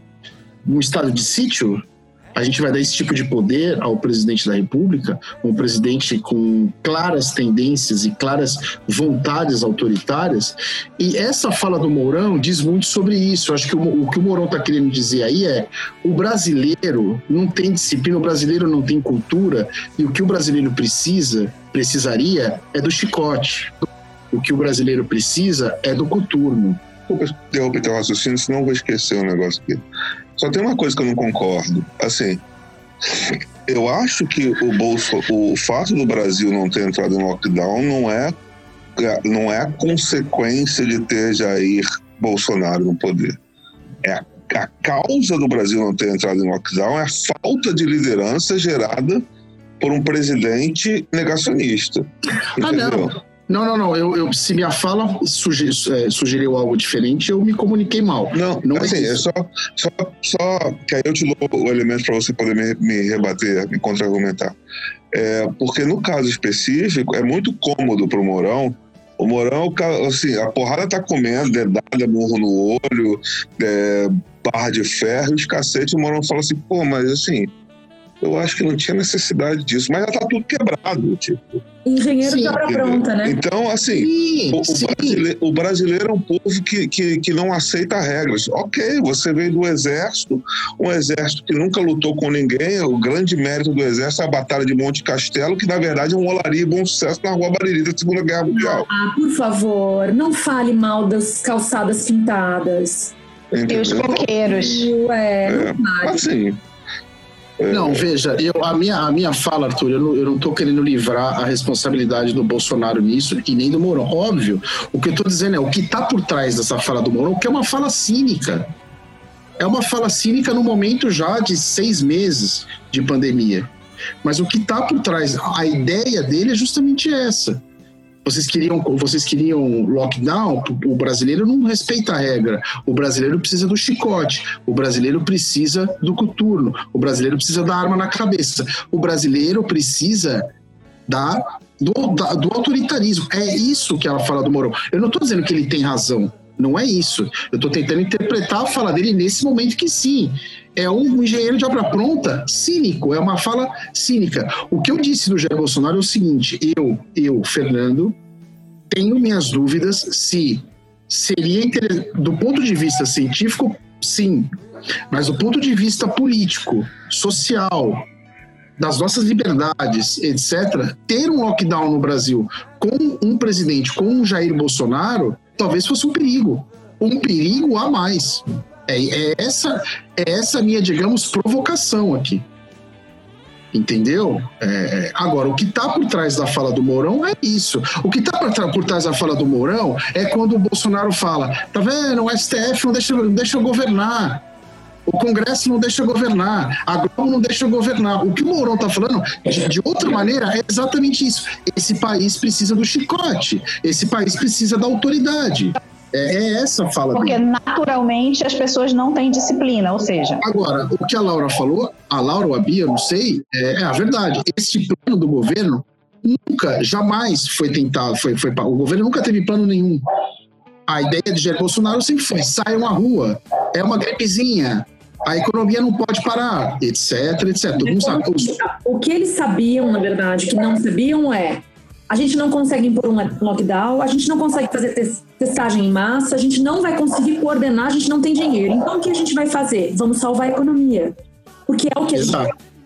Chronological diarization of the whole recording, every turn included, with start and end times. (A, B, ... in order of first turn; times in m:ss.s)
0:00.6-0:01.8 A
0:02.3-0:26.8 A
0:27.1-0:29.8 B
0:30.4-0:32.4 B
0:33.1-0:38.4 B
0:39.0-0:43.4 B
0:44.0-0:49.2 B
0:49.8-0:53.1 B
0:52.6-0:59.2 A
0:58.3-1:04.5 B
1:05.1-1:17.5 B
1:18.2-1:21.6 B
1:21.8-1:23.4 C
1:22.2-1:22.6 A
1:22.6-1:38.8 B
1:24.0-1:25.2 A
1:38.5-1:43.1 C
1:43.5-1:44.3 B
1:43.7-1:44.9 D
1:44.4-1:46.2 C
1:45.4-1:46.6 B
1:47.6-1:48.0 B
1:47.7-1:58.7 A
1:59.6-2:03.7 A
2:04.2-2:07.6 A
2:08.2-2:20.5 A
2:21.1-2:38.2 A
2:38.9-2:44.5 A
2:45.1-2:48.0 A
2:48.8-3:02.4 A
3:03.7-3:14.4 A
3:15.0-3:27.4 A
3:27.1-3:30.4 D
3:30.4-3:40.0 A
3:40.9-3:48.5 A
3:47.8-4:01.2 C
4:01.7-4:02.4 C
4:02.1-4:02.5 A